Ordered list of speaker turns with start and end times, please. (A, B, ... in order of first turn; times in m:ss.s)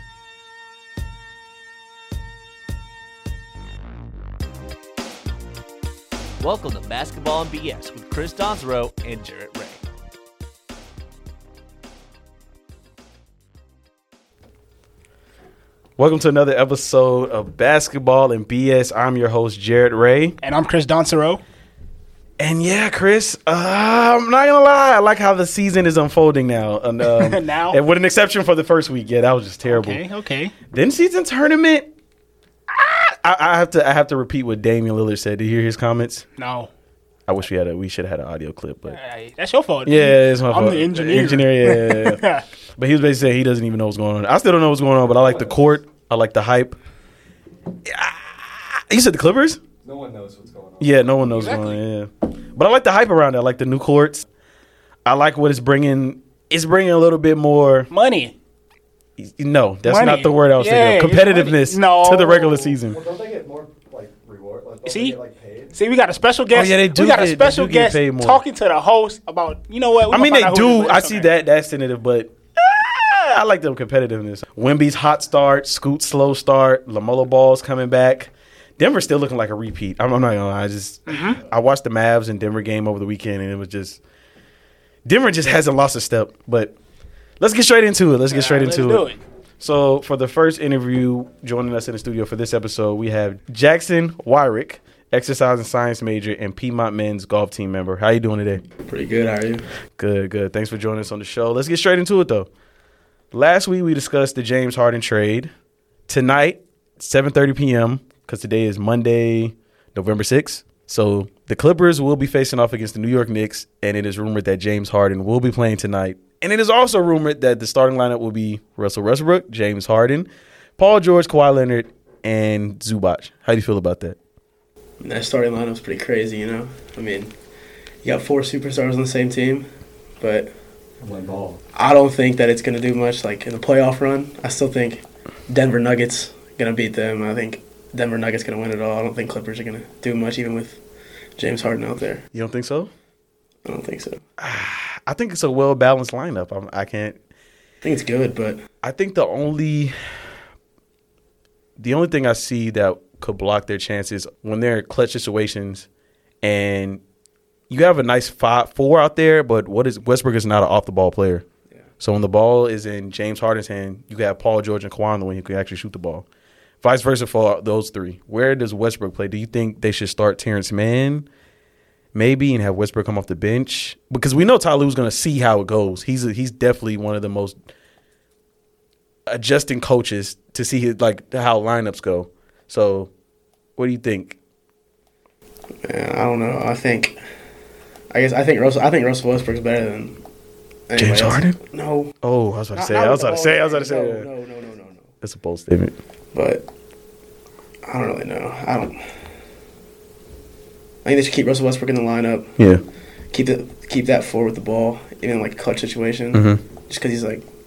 0:06.4-0:09.8 A
0:16.0-0:20.4 B
0:20.4-0:21.4 C
0:22.4-0:30.0 B
0:27.0-0:27.8 C
0:29.6-0:30.5 C
0:30.7-0:31.9 B
0:32.7-0:36.2 B
0:36.4-0:36.7 C
0:37.3-0:39.0 B
0:38.9-0:42.4 C
0:39.8-0:42.2 B
0:42.8-0:46.8 B
0:45.2-0:45.7 D
0:47.8-0:49.6 B
0:49.8-0:50.9 D
0:50.8-0:54.3 B
0:51.3-0:51.8 C
0:55.0-0:57.9 B
0:57.9-0:58.3 C
0:59.2-1:03.0 B
0:59.8-1:02.7 C
1:02.8-1:05.7 D
1:04.8-1:05.2 C
1:05.7-1:11.3 C
1:06.5-1:08.4 B
1:10.1-1:24.0 B
1:21.1-1:21.4 C
1:25.0-1:26.7 B
1:27.4-1:29.1 B
1:28.3-1:29.2 C
1:29.6-1:38.6 B
1:38.8-1:39.7 E
1:40.0-1:42.5 B
1:43.3-1:45.5 B
1:46.1-2:04.2 B
2:05.0-2:07.3 E
2:08.0-2:10.5 E
2:11.0-2:11.6 D
2:11.7-2:20.8 E
2:21.4-2:22.2 E
2:22.3-2:22.9 B
2:23.6-2:24.2 E
2:24.4-2:27.2 B
2:27.8-2:28.6 E
2:28.8-2:29.9 B
2:31.8-2:35.8 B
2:36.4-2:37.0 B
2:37.7-2:41.4 B
2:42.0-2:46.2 B
2:46.8-2:51.3 B
2:52.1-2:57.5 B
2:59.3-3:03.1 B
3:03.8-3:04.4 B
3:05.8-3:07.2 E
3:08.1-3:10.2 E
3:10.9-3:12.1 E
3:11.0-3:11.6 B
3:12.2-3:14.3 B
3:12.7-3:15.1 E
3:15.2-3:15.9 B
3:16.3-3:16.7 E
3:17.8-3:19.2 E
3:21.0-3:22.7 E
3:22.6-3:22.8 B
3:23.3-3:27.4 E
3:26.3-3:26.6 B